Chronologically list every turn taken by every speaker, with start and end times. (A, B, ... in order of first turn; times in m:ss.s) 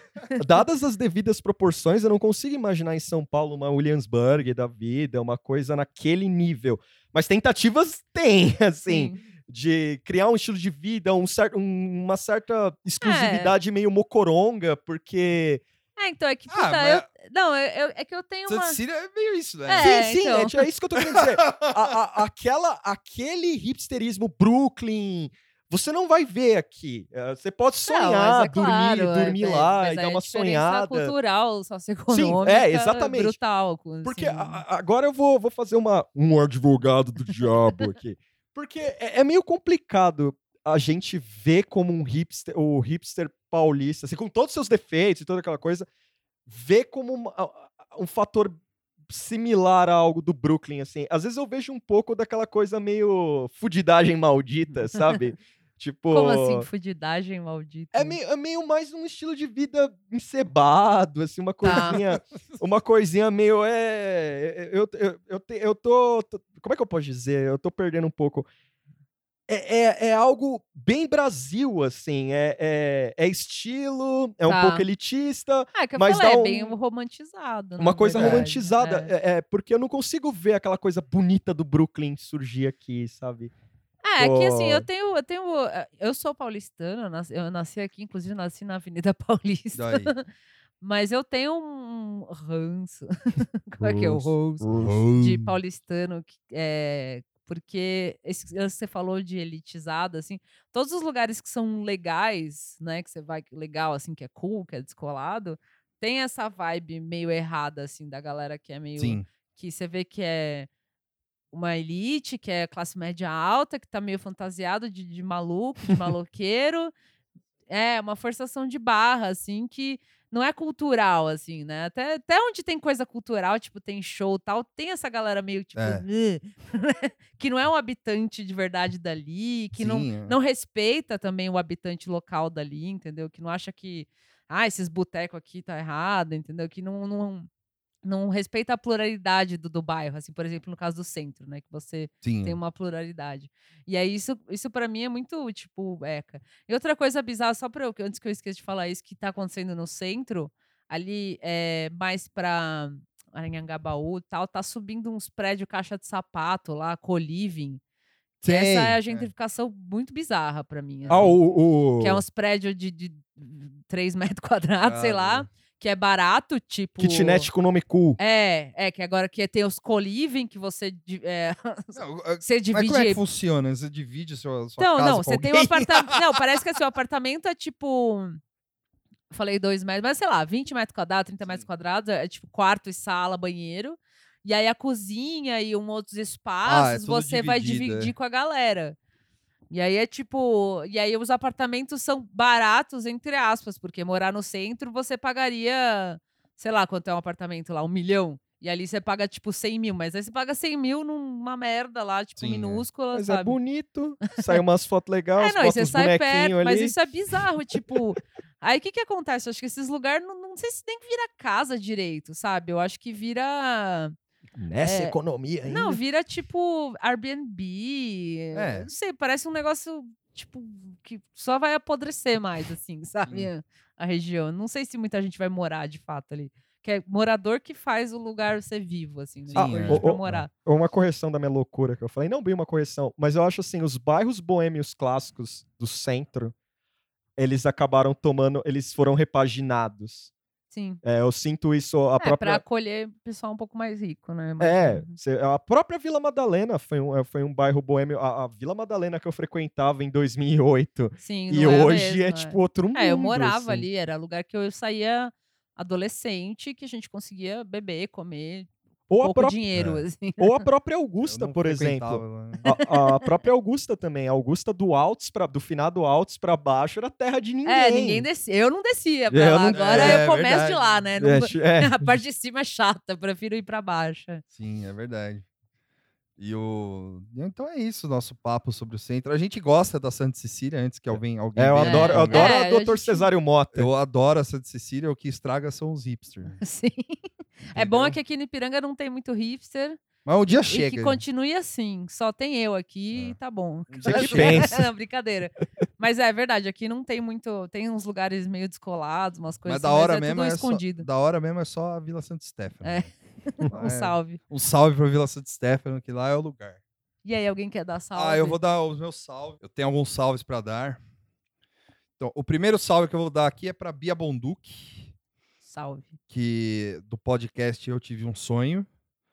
0:00.4-0:15.6 A
0:08.9-0:09.2 B
0:13.0-0:13.5 B
0:16.0-0:18.8 B
0:16.5-0:17.0 C
0:18.5-0:19.9 C
0:19.7-0:20.6 B
0:19.8-0:31.1 A
0:21.0-0:21.8 C
0:27.9-0:34.6 B
0:32.1-0:33.4 A
0:34.0-0:45.8 A
0:46.5-0:56.7 A
0:56.1-0:58.2 B
0:57.9-1:08.5 A
1:01.6-1:02.0 B
1:01.7-1:02.1 C
1:09.5-1:16.7 A
1:14.4-1:14.8 B
1:15.7-1:19.1 B
1:17.8-1:23.5 A
1:18.2-1:18.4 C
1:24.0-1:30.2 B
1:24.2-1:24.8 A
1:29.7-1:30.1 C
1:30.8-1:50.7 B
1:33.8-1:35.0 A
1:34.8-1:35.5 C
1:49.0-1:49.2 C
1:51.5-1:56.9 B
1:57.7-2:17.5 B
2:05.8-2:06.0 C
2:09.8-2:10.3 C
2:18.0-2:37.8 B
2:22.2-2:22.6 C
2:38.4-2:39.3 C
2:38.4-2:41.4 B
2:41.1-2:41.3 C
2:41.1-2:42.2 A
2:42.0-2:47.5 B
2:44.8-2:45.5 C
2:47.0-2:48.2 A
2:48.2-2:53.2 B
2:52.0-2:56.1 C
2:54.8-2:58.4 B
2:59.3-3:09.0 B
3:06.6-3:08.1 C
3:09.7-3:23.6 B
3:22.4-3:22.8 C
3:23.1-3:27.0 A
3:25.4-3:34.1 B
3:34.5-3:36.0 A
3:34.8-3:50.5 B
3:38.5-3:38.9 C
3:49.5-3:56.5 A
3:49.5-3:50.4 C
3:57.4-4:00.3 A
4:00.7-4:01.0 B
4:01.0-4:02.6 A
4:02.2-4:05.2 B
4:04.6-4:13.8 A
4:11.2-4:20.6 B
4:19.1-4:19.6 A
4:19.7-4:20.0 C
4:20.4-4:28.2 A
4:21.2-4:22.6 C
4:22.6-4:23.0 B
4:27.6-4:34.4 B
4:29.3-4:30.2 A
4:29.7-4:30.8 C
4:31.2-4:32.1 A
4:34.6-4:35.4 C
4:36.4-4:42.6 C
4:41.5-4:43.9 A
4:41.8-4:43.3 B
4:43.7-4:46.6 C
4:46.6-4:47.2 B
4:47.7-4:50.0 B
4:47.7-4:48.2 C
4:50.2-4:51.2 C
4:50.7-5:01.1 B
4:53.1-4:53.4 C
4:53.9-4:54.7 C
4:54.0-4:54.8 A
4:59.6-5:03.1 C
5:02.8-5:04.4 B
5:03.7-5:06.8 C
5:07.2-5:08.6 B
5:08.1-5:11.0 C
5:12.2-5:15.1 C
5:15.6-5:16.1 B
5:16.3-5:18.9 C